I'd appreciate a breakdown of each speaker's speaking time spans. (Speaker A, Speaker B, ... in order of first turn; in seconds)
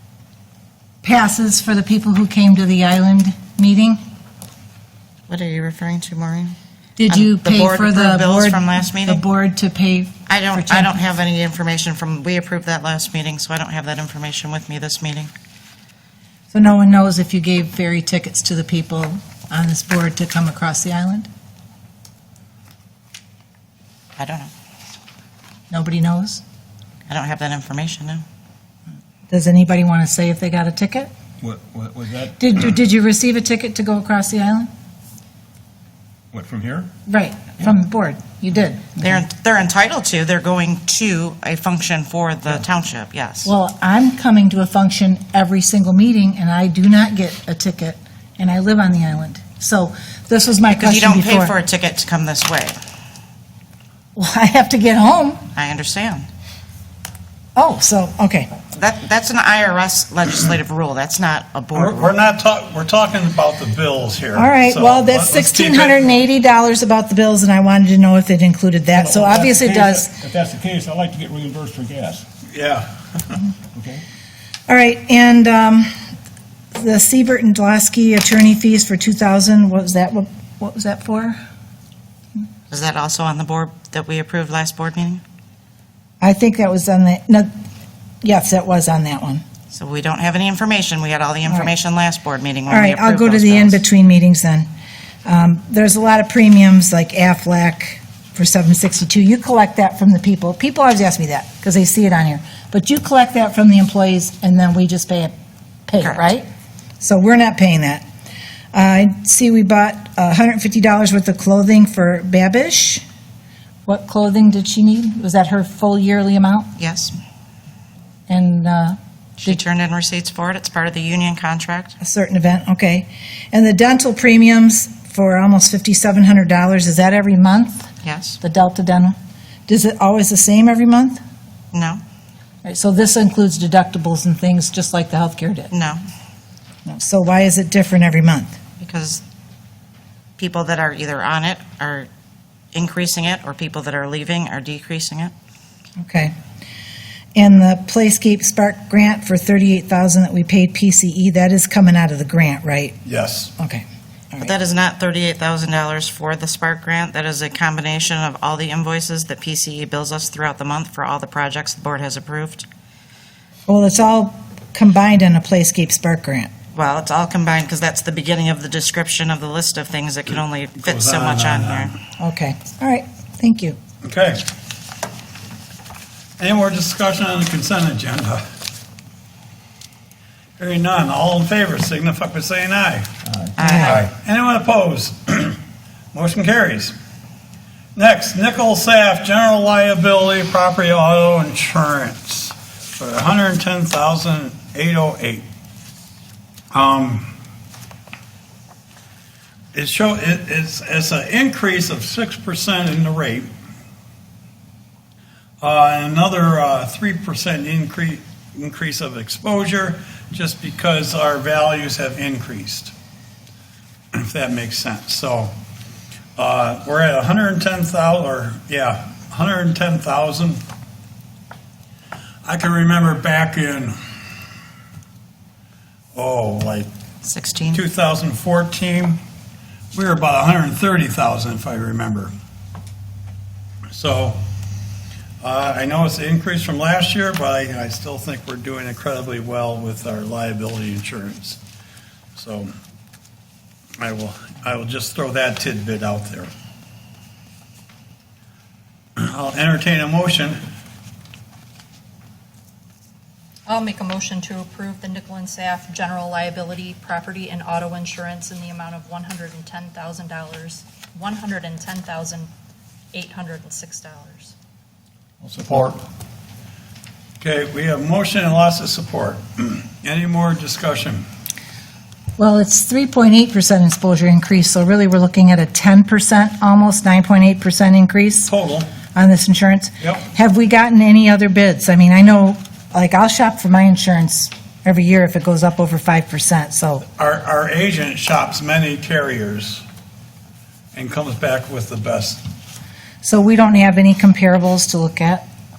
Speaker A: 1.0-4.0, 7.0-11.0, 16.5-21.3, 25.7-26.4, 29.3-31.1, 32.4-34.7, 37.1-39.2, 43.4-51.5, 54.2-55.4, 57.5-58.5, 64.3-70.1, 74.7-75.9, 76.7-81.4, 86.2-87.5, 88.2-89.4, 92.7-94.7, 95.2-105.3, 105.9-106.5, 107.0-108.0, 108.7-113.0, 113.9-116.7, 118.3-119.6, 122.0-129.2, 129.7-131.2, 132.6-135.7, 136.9-138.6, 146.0-146.3, 147.4-153.0, 153.6-154.5, 163.7-166.5, 172.2-173.8, 183.6-184.0, 272.4-278.5, 279.1-287.1, 293.2-295.4
Speaker B: 5.3-6.6, 7.1-9.2, 10.3-15.3, 24.2-24.5, 27.1-28.2, 39.0-43.5, 50.7-52.8, 55.5-56.3, 58.7-62.1, 82.7-85.2, 89.7-93.8, 106.0-106.3, 116.8-117.2, 119.4-122.0, 128.0-128.4, 131.7-132.0, 135.7-136.0, 138.8-139.2, 140.4-142.1, 142.7-145.3, 154.4-162.7, 166.7-172.0, 183.6-184.0, 227.2-227.8
Speaker C: 31.4-32.4, 36.3-36.9, 68.9-72.2, 73.7-74.0
Speaker D: 61.7-66.2, 72.5-73.4, 153.1-153.5, 170.8-171.9, 174.0-174.4, 176.4-178.4, 180.6-183.1, 183.8-185.6, 186.1-186.9, 188.0-195.5, 196.7-197.3, 199.7-203.5, 205.6-212.9, 214.1-215.5, 216.4-220.6, 222.4-223.9, 226.1-226.9, 227.7-229.2, 229.9-232.3, 233.9-234.4, 235.4-241.6, 242.3-242.7, 244.0-246.5, 249.2-250.6, 265.4-266.0, 267.4-271.2, 278.5-278.9, 280.0-280.3, 287.2-289.8, 290.9-292.4
Speaker E: 253.7-262.5, 263.1-264.5